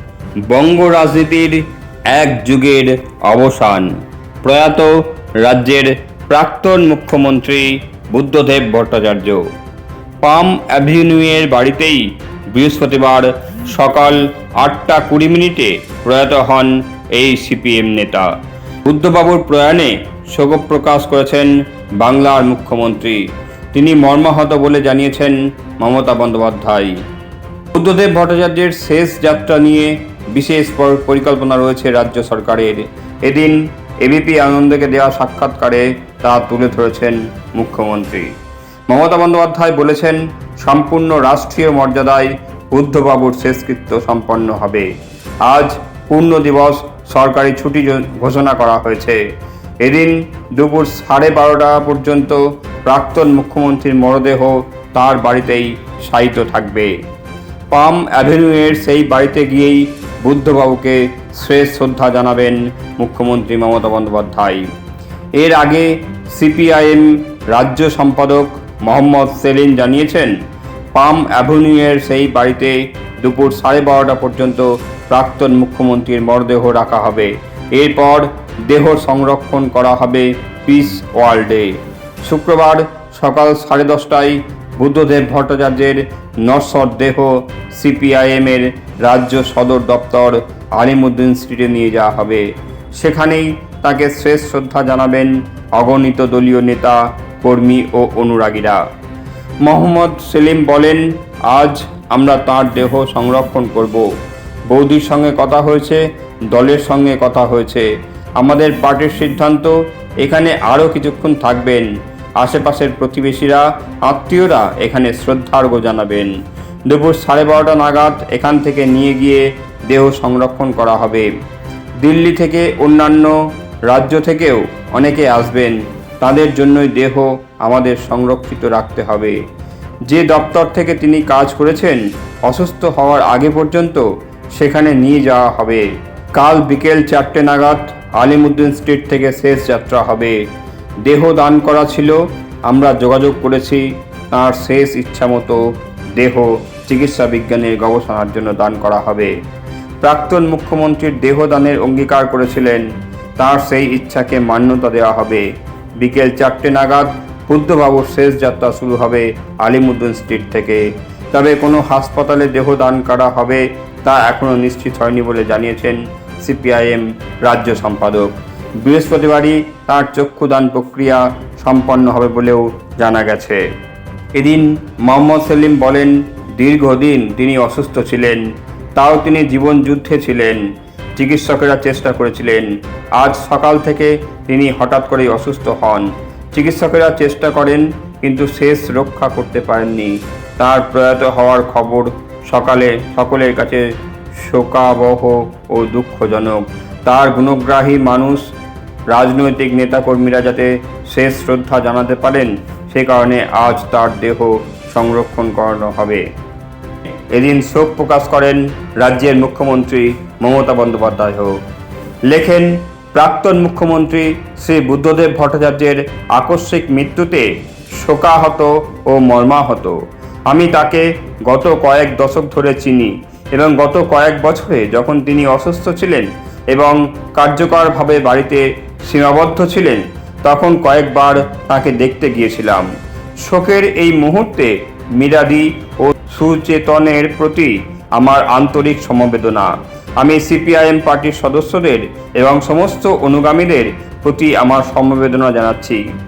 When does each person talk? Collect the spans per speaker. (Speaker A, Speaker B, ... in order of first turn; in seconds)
Speaker A: 0.5-9.4, 10.2-18.3, 18.9-27.0, 27.7-38.3, 38.9-44.9, 45.4-49.2, 49.8-56.9, 57.7-64.7, 65.4-70.3, 71.0-98.8, 99.6-104.1, 104.7-107.9, 108.4-111.9, 112.4-116.3, 116.9-121.3, 122.0-123.4, 123.9-129.4, 130.1-140.4, 141.0-145.6, 146.2-149.3, 150.0-152.9, 153.4-155.5, 156.0-173.6, 174.3-180.6, 181.2-198.5, 199.1-206.2, 207.3-211.6, 212.3-220.0, 220.5-232.9, 233.4-246.0